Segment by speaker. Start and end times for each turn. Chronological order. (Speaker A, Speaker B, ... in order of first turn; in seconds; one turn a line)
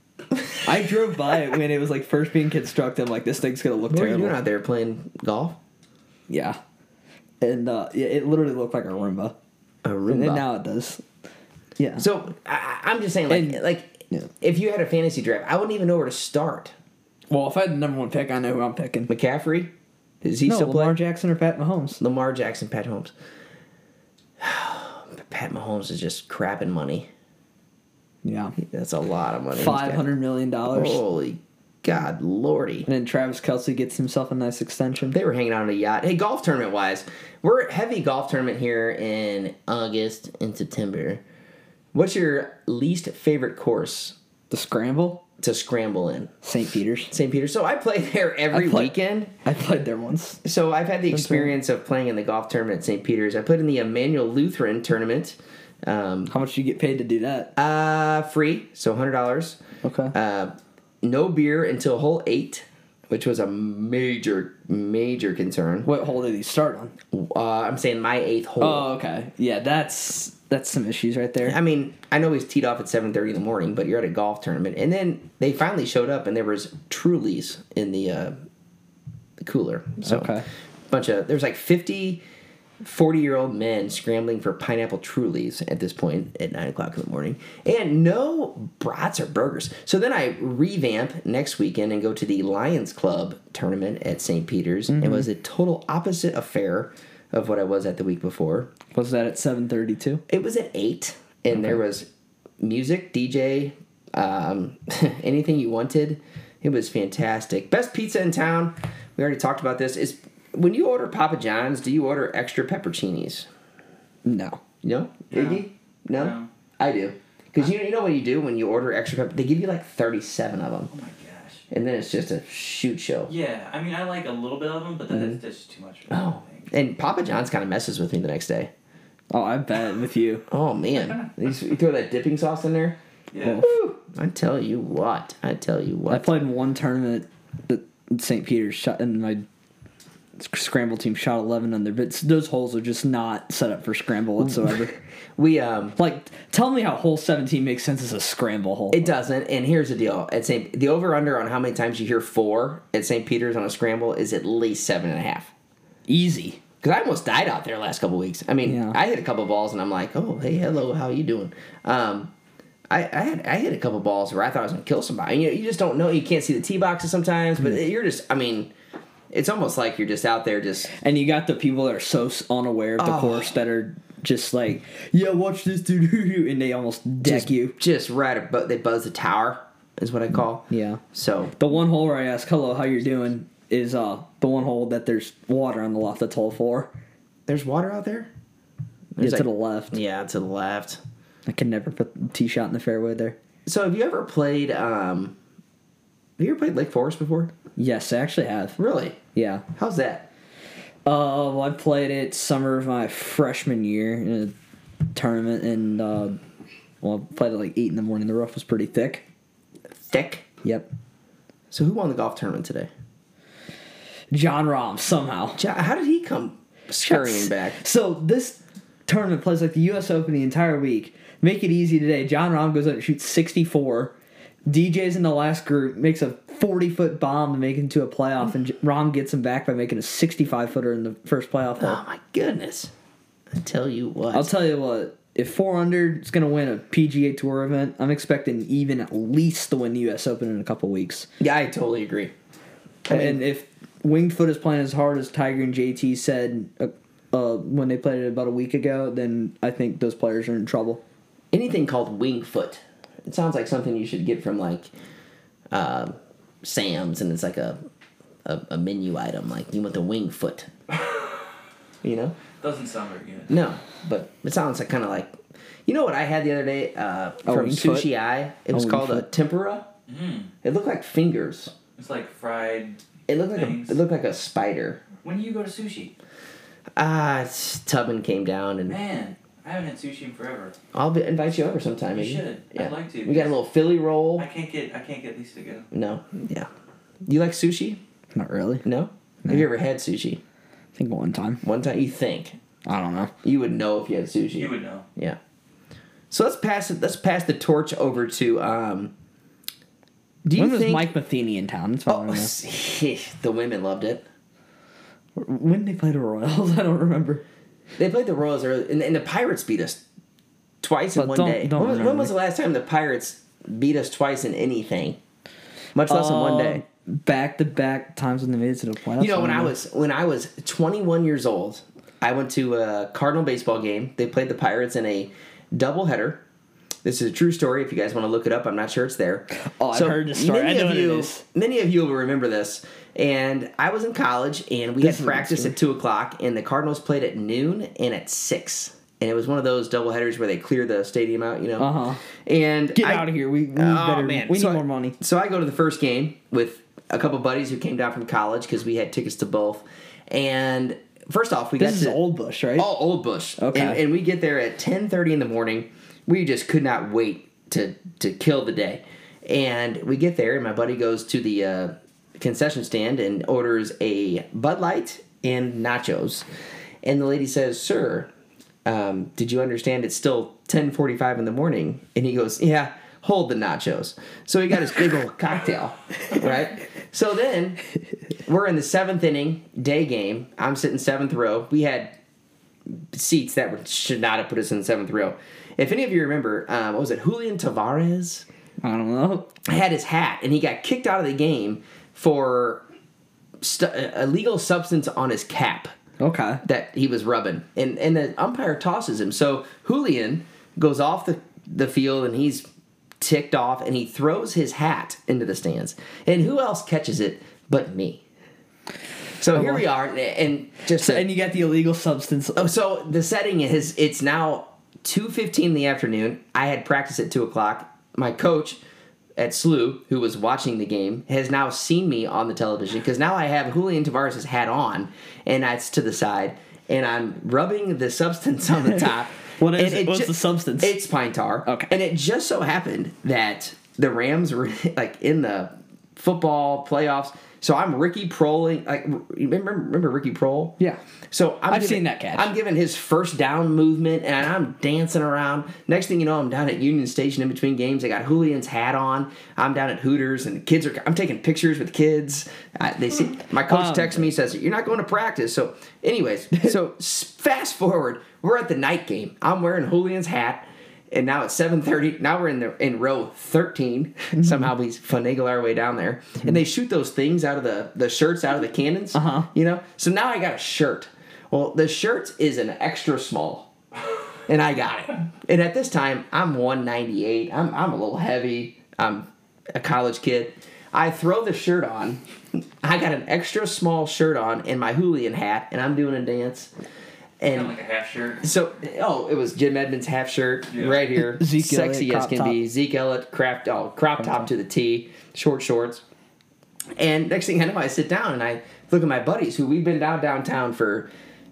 Speaker A: 0.6-4.4
Speaker B: 3.9-5.6
Speaker A: 6.3-6.6
Speaker A: 7.4-9.3
Speaker B: 9.8-10.5
Speaker A: 10.1-11.0
Speaker A: 11.8-12.1
Speaker B: 12.0-16.7
Speaker A: 13.3-14.3
Speaker A: 17.3-19.1
Speaker B: 19.1-21.0
Speaker A: 20.5-22.0
Speaker B: 22.0-23.1
Speaker B: 24.4-27.1
Speaker A: 28.2-28.6
Speaker B: 28.6-30.1
Speaker A: 29.5-31.0
Speaker B: 30.7-32.9
Speaker A: 32.9-35.2
Speaker B: 35.1-41.2
Speaker B: 41.9-44.2
Speaker A: 44.5-45.2
Speaker B: 45.4-46.3
Speaker A: 46.4-47.1
Speaker B: 47.1-49.3
Speaker A: 48.5-50.4
Speaker B: 50.4-56.3
Speaker A: 51.1-51.5
Speaker A: 56.3-57.5
Speaker B: 57.6-59.6
Speaker A: 59.8-60.1
Speaker B: 60.1-65.9
Speaker A: 65.8-66.9
Speaker B: 67.1-68.9
Speaker A: 68.6-71.6
Speaker B: 71.4-78.4
Speaker B: 79.4-80.3
Speaker A: 80.0-80.5
Speaker B: 80.9-82.2
Speaker B: 82.8-98.7
Speaker A: 94.9-95.2
Speaker A: 98.9-100.2
Speaker B: 100.3-102.1
Speaker B: 102.6-113.5
Speaker A: 114.2-114.6
Speaker B: 114.8-120.9
Speaker C: 115.3-116.5
Speaker C: 120.9-121.6
Speaker B: 121.7-123.3
Speaker C: 123.3-126.7
Speaker B: 125.1-125.4
Speaker B: 126.1-128.7
Speaker A: 129.3-130.4
Speaker B: 130.5-133.0
Speaker C: 133.3-133.7
Speaker A: 133.4-133.8
Speaker B: 133.6-136.4
Speaker A: 136.1-139.5
Speaker A: 140.4-144.9
Speaker B: 145.4-146.0
Speaker A: 146.0-149.1
Speaker B: 148.9-155.5
Speaker A: 156.1-156.6
Speaker B: 156.8-162.3
Speaker A: 158.7-159.0
Speaker B: 162.9-168.7
Speaker B: 169.3-170.9
Speaker A: 171.0-177.8
Speaker B: 173.0-173.5
Speaker B: 177.2-181.6
Speaker A: 180.7-181.0
Speaker A: 181.6-186.9
Speaker B: 187.5-188.3
Speaker B: 189.2-191.0
Speaker A: 189.2-190.0
Speaker A: 191.5-193.4
Speaker B: 193.7-195.4
Speaker B: 196.4-197.5
Speaker A: 197.8-198.8
Speaker B: 198.8-199.2
Speaker A: 199.3-199.7
Speaker B: 199.8-200.3
Speaker A: 201.1-204.5
Speaker A: 205.1-206.4
Speaker A: 207.0-209.2
Speaker B: 210.0-210.4
Speaker B: 211.7-212.9
Speaker A: 214.3-215.6
Speaker B: 215.6-217.8
Speaker A: 217.0-224.1
Speaker A: 224.7-232.0
Speaker B: 231.8-232.9
Speaker B: 233.5-234.5
Speaker A: 234.3-241.3
Speaker B: 241.4-242.3
Speaker B: 243.1-243.4
Speaker A: 243.1-251.0
Speaker B: 251.5-254.9
Speaker B: 255.7-257.8
Speaker B: 258.4-260.7
Speaker B: 262.0-262.4
Speaker C: 262.6-263.5
Speaker B: 263.5-265.4
Speaker B: 265.9-269.9
Speaker A: 267.5-268.1
Speaker A: 268.7-269.3
Speaker C: 270.1-270.5
Speaker B: 270.6-271.7
Speaker C: 272.0-273.0
Speaker B: 273.3-275.0
Speaker C: 273.5-274.0
Speaker C: 275.2-276.1
Speaker B: 277.0-279.0
Speaker C: 278.9-280.8
Speaker B: 280.9-284.5
Speaker C: 282.1-283.6
Speaker C: 284.4-285.9
Speaker B: 285.9-286.7
Speaker B: 287.2-288.0
Speaker A: 288.4-288.9
Speaker B: 288.8-290.4
Speaker A: 291.0-291.6
Speaker B: 291.6-292.6
Speaker A: 292.9-293.3
Speaker B: 293.4-295.4
Speaker C: 294.6-295.1
Speaker B: 296.3-299.1
Speaker B: 300.5-301.1
Speaker A: 300.5-302.5
Speaker B: 302.1-304.2
Speaker A: 305.4-307.4
Speaker B: 308.0-310.0
Speaker B: 310.8-315.2
Speaker A: 311.2-312.3
Speaker B: 315.9-316.8
Speaker A: 316.1-319.7
Speaker B: 319.2-326.4
Speaker B: 327.0-341.9
Speaker A: 329.6-331.4
Speaker A: 335.0-335.8
Speaker A: 341.8-342.2
Speaker B: 342.5-352.2
Speaker A: 342.9-345.2
Speaker A: 351.8-352.9
Speaker B: 352.8-366.5
Speaker A: 353.6-354.0
Speaker B: 367.0-368.3
Speaker B: 368.9-377.8
Speaker B: 378.4-382.2
Speaker B: 383.1-388.5
Speaker A: 388.8-389.5
Speaker B: 389.7-392.8
Speaker B: 393.6-395.9
Speaker A: 396.2-396.6
Speaker B: 396.6-402.7
Speaker B: 403.2-408.2
Speaker B: 409.4-411.3
Speaker A: 409.5-409.9
Speaker A: 411.0-412.7
Speaker B: 412.6-418.8
Speaker B: 419.4-440.8
Speaker A: 429.6-431.0
Speaker A: 431.7-431.9
Speaker B: 441.3-473.7
Speaker A: 441.7-442.5
Speaker A: 453.7-454.3
Speaker A: 469.1-469.5
Speaker B: 474.5-482.2
Speaker B: 482.8-486.7
Speaker B: 487.4-487.7
Speaker C: 487.5-488.4
Speaker B: 488.4-496.0
Speaker C: 490.7-491.0
Speaker A: 491.3-492.6
Speaker B: 497.0-501.1